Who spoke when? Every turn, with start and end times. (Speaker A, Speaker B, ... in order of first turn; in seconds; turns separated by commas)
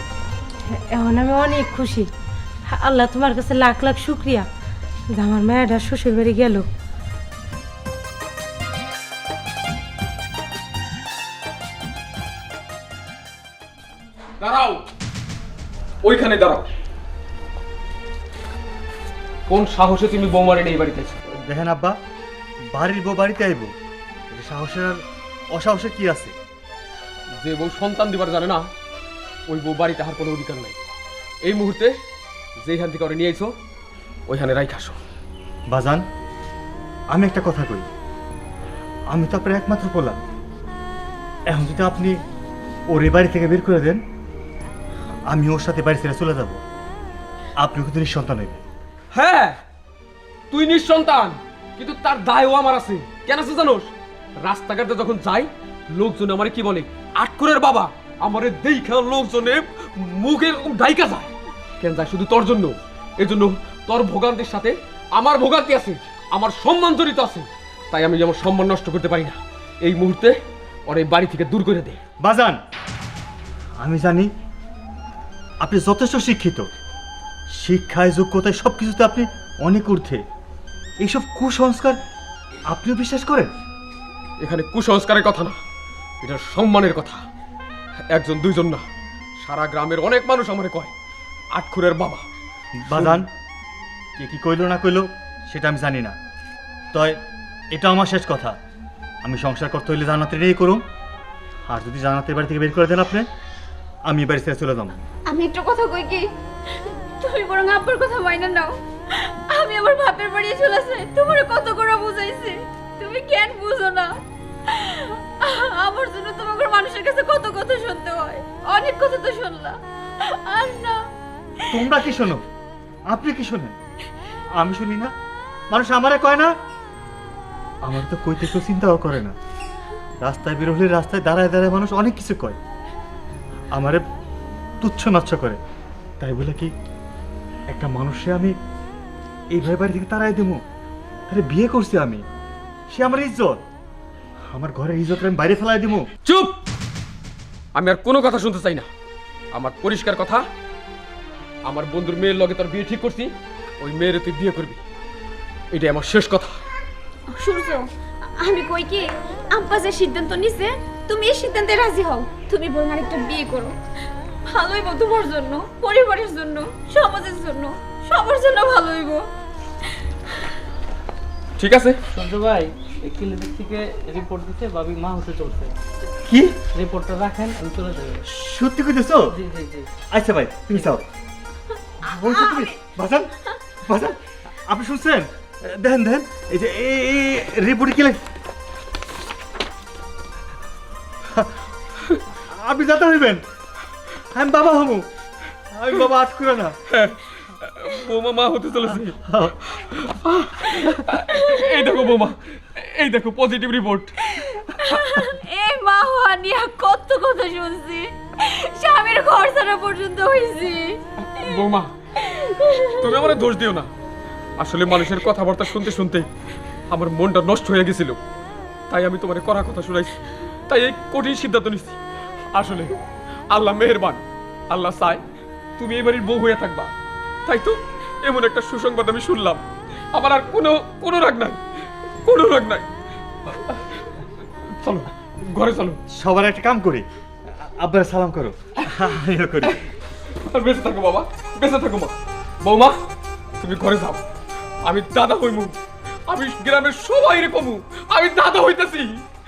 Speaker A: 0.7-2.1, Speaker A: 2.7-4.5, Speaker A: 5.1-6.7, Speaker B: 14.4-14.8, Speaker B: 16.0-16.6, Speaker B: 19.5-21.2, Speaker C: 21.4-22.0, Speaker C: 22.7-23.7, Speaker C: 24.3-25.0, Speaker C: 25.5-26.3, Speaker B: 27.4-28.6, Speaker B: 29.5-30.8, Speaker B: 31.4-31.9, Speaker B: 32.6-33.5, Speaker B: 34.3-35.0, Speaker C: 35.7-36.0, Speaker C: 37.1-37.9, Speaker C: 39.1-40.2, Speaker C: 41.5-42.2, Speaker C: 42.9-44.0, Speaker C: 45.3-46.6, Speaker C: 47.6-48.6, Speaker B: 49.1-49.6, Speaker B: 50.5-70.3, Speaker B: 70.9-72.0, Speaker C: 72.2-72.6, Speaker C: 73.8-74.3, Speaker C: 75.6-76.7, Speaker C: 77.5-80.2, Speaker C: 81.0-82.0, Speaker C: 82.7-83.5, Speaker B: 84.4-85.6, Speaker B: 86.2-87.2, Speaker B: 88.1-88.8, Speaker B: 89.4-90.9, Speaker B: 91.5-92.2, Speaker C: 92.8-93.3, Speaker B: 92.9-93.2, Speaker C: 94.2-96.1, Speaker C: 96.9-97.2, Speaker C: 97.7-98.5, Speaker C: 99.2-100.8, Speaker C: 101.7-103.2, Speaker C: 104.1-105.0, Speaker D: 105.3-106.3, Speaker D: 106.8-114.1, Speaker D: 114.7-121.0, Speaker D: 121.7-121.9, Speaker C: 121.7-122.4, Speaker C: 123.1-123.8, Speaker C: 124.6-125.1, Speaker C: 125.7-126.5, Speaker C: 127.8-129.3, Speaker C: 130.2-132.6, Speaker C: 133.7-134.0, Speaker C: 134.8-135.6, Speaker C: 136.2-136.7, Speaker C: 137.7-138.5, Speaker C: 139.5-140.6, Speaker C: 141.3-142.2, Speaker C: 142.9-143.6, Speaker C: 144.5-146.1, Speaker B: 146.2-146.5, Speaker B: 147.7-148.9, Speaker B: 149.5-150.4, Speaker B: 151.7-154.8, Speaker B: 155.7-156.6, Speaker D: 157.3-157.8, Speaker D: 158.4-163.8, Speaker D: 164.5-169.2, Speaker B: 171.6-172.0, Speaker E: 172.1-175.7, Speaker C: 176.2-176.6, Speaker E: 176.7-178.2, Speaker C: 178.3-179.3, Speaker E: 179.3-179.9, Speaker C: 180.1-181.0, Speaker E: 180.7-180.9, Speaker C: 182.0-183.3, Speaker D: 182.2-182.7, Speaker C: 183.8-188.2, Speaker C: 192.3-193.4, Speaker C: 194.3-195.1, Speaker C: 195.7-196.8, Speaker B: 196.9-204.2, Speaker C: 199.2-199.6, Speaker D: 201.3-201.7, Speaker D: 204.2-211.6, Speaker B: 211.3-211.9, Speaker D: 212.1-213.2, Speaker B: 213.0-213.9, Speaker B: 214.6-216.3, Speaker B: 216.9-218.2, Speaker B: 218.9-222.0, Speaker B: 222.5-222.9, Speaker B: 223.5-225.2, Speaker B: 225.8-226.9, Speaker B: 227.4-229.6, Speaker B: 230.1-231.6, Speaker B: 232.2-232.9, Speaker B: 233.4-236.0, Speaker C: 236.2-237.0, Speaker C: 237.8-239.8, Speaker B: 240.4-242.9, Speaker B: 243.6-244.2, Speaker B: 244.8-245.8, Speaker B: 246.3-249.2